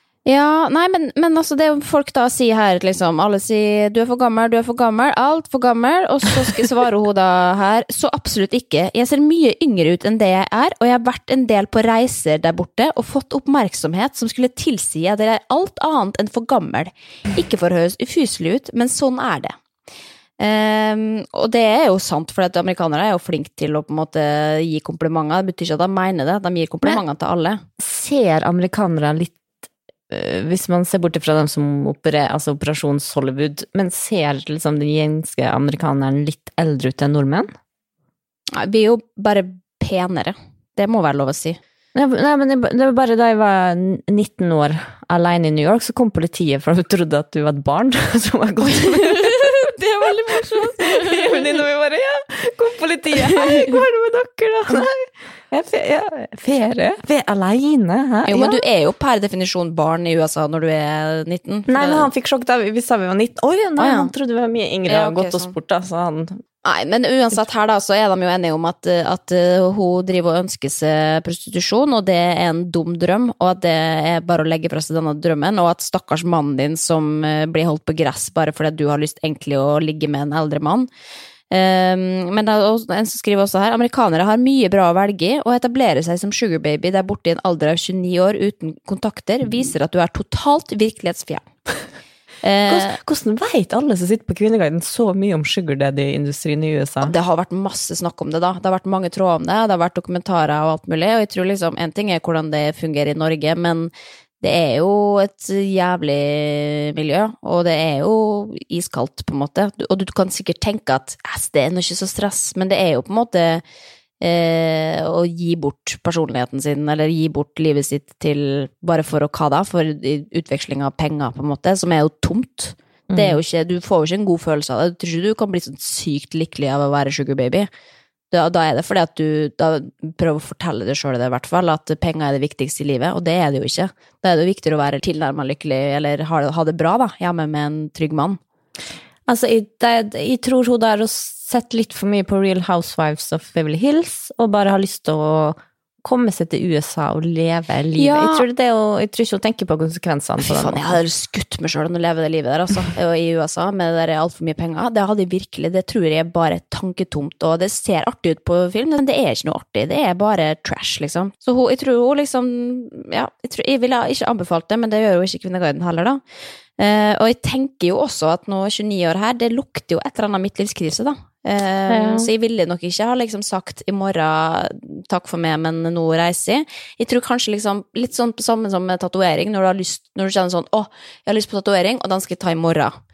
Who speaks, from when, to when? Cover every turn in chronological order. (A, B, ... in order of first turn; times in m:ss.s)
0:00.3-0:19.6 A
0:20.4-0:27.6 A
0:27.8-0:29.4 B
0:30.1-0:37.5 B
0:38.5-0:41.6 A
0:41.9-0:58.6 B
0:48.7-0:51.5 A
0:53.3-0:53.8 A
0:58.3-1:02.1 A
1:01.7-1:06.4 B
1:03.8-1:04.1 A
1:04.9-1:05.6 A
1:06.6-1:20.9 A
1:21.5-1:31.5 A
1:32.4-1:33.0 A
1:32.7-1:37.2 B
1:37.0-1:53.6 A
1:54.2-2:07.7 A
2:03.1-2:03.4 B
2:08.3-2:18.4 A
2:19.3-2:31.0 B
2:28.0-2:28.4 A
2:30.4-2:46.2 A
2:46.8-3:03.0 A
2:51.9-2:52.3 B